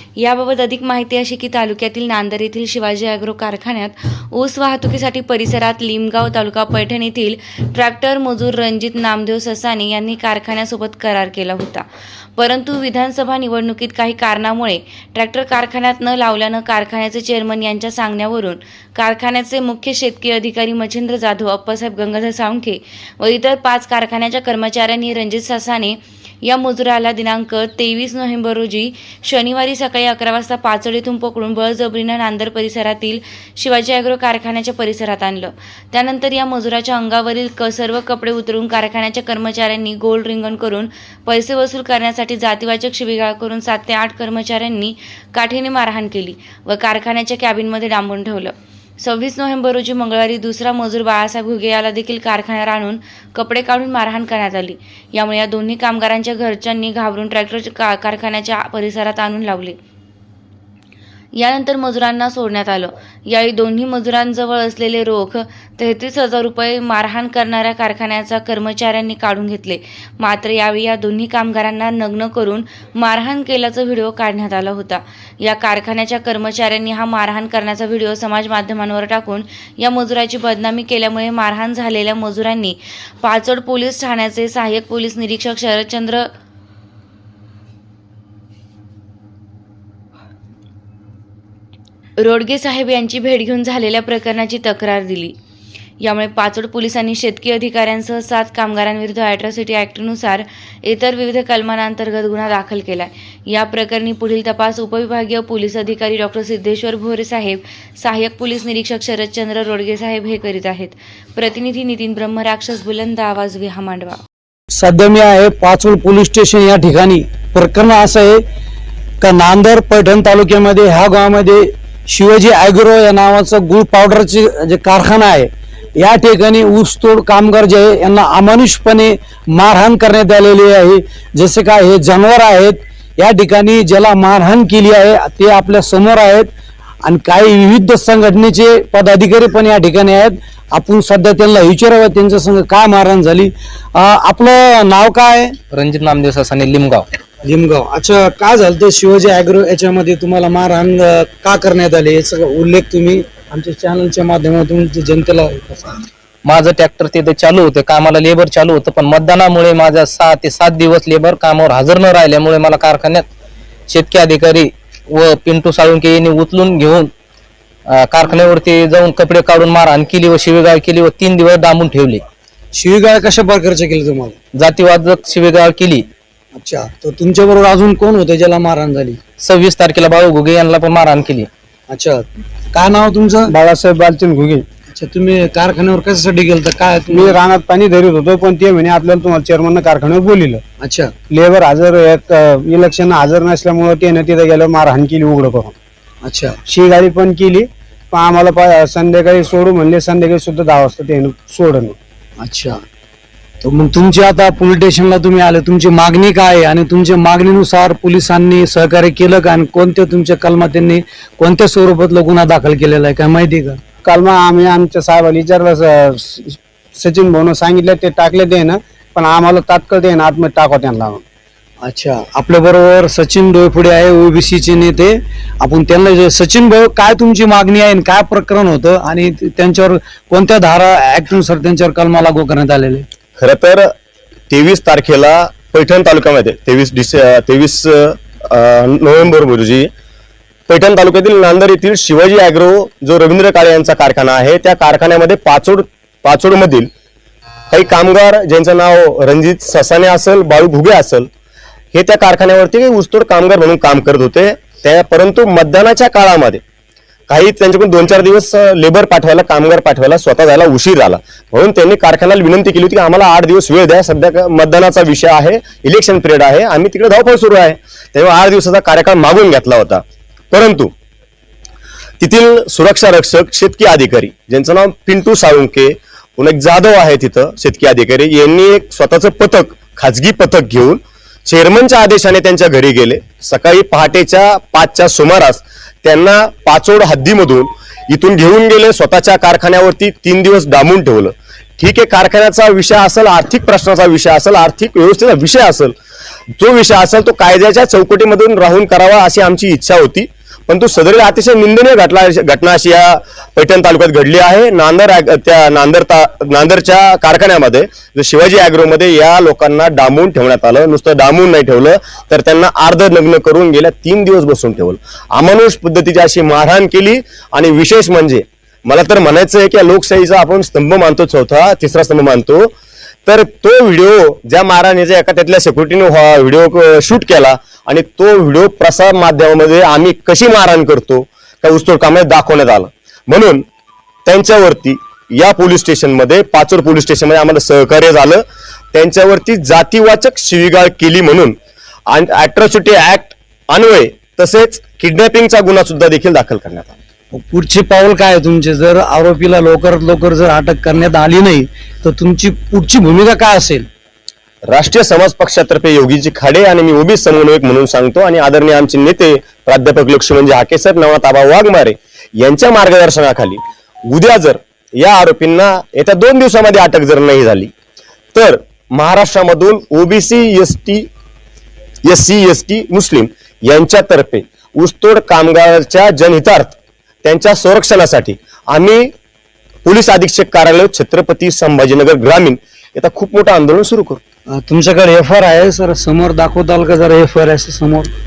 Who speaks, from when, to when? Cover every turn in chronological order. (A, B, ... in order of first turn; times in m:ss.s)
0:00.2-0:11.8 A
0:12.4-0:59.8 A
1:01.3-1:26.3 A
1:32.2-1:35.3 A
1:36.0-1:54.2 A
1:54.7-1:58.4 B
1:59.2-2:16.5 B
2:17.0-2:25.6 B
2:25.7-2:27.1 C
2:27.4-2:36.0 B
2:36.4-2:43.3 C
2:43.9-2:47.1 C
2:47.9-2:52.2 C
2:52.7-2:54.4 B
2:54.5-2:56.0 C
2:56.5-2:59.2 B
2:59.4-3:01.5 C
3:01.9-3:03.5 B
3:03.5-3:04.6 D
3:04.9-3:07.4 B
3:07.1-3:10.6 D
3:10.8-3:11.1 B
3:11.3-3:15.8 D
3:16.2-3:16.6 B
3:16.7-3:22.0 D
3:22.4-3:22.8 B
3:23.6-3:33.8 B
3:34.0-3:41.2 D
3:41.8-3:53.0 B
3:53.4-3:53.9 E
3:54.5-3:59.9 E
4:00.7-4:06.9 E
4:07.7-4:11.3 E
4:11.9-4:16.6 E
4:17.3-4:30.9 E
4:32.2-4:55.9 E
4:56.6-5:22.7 E
5:23.2-5:33.6 E
5:34.2-5:41.6 E
5:42.1-5:46.9 E
5:47.3-5:53.9 B
5:54.6-6:07.7 E
6:08.3-6:11.1 E
6:12.0-6:19.1 E
6:19.8-6:24.2 E
6:24.5-6:28.1 B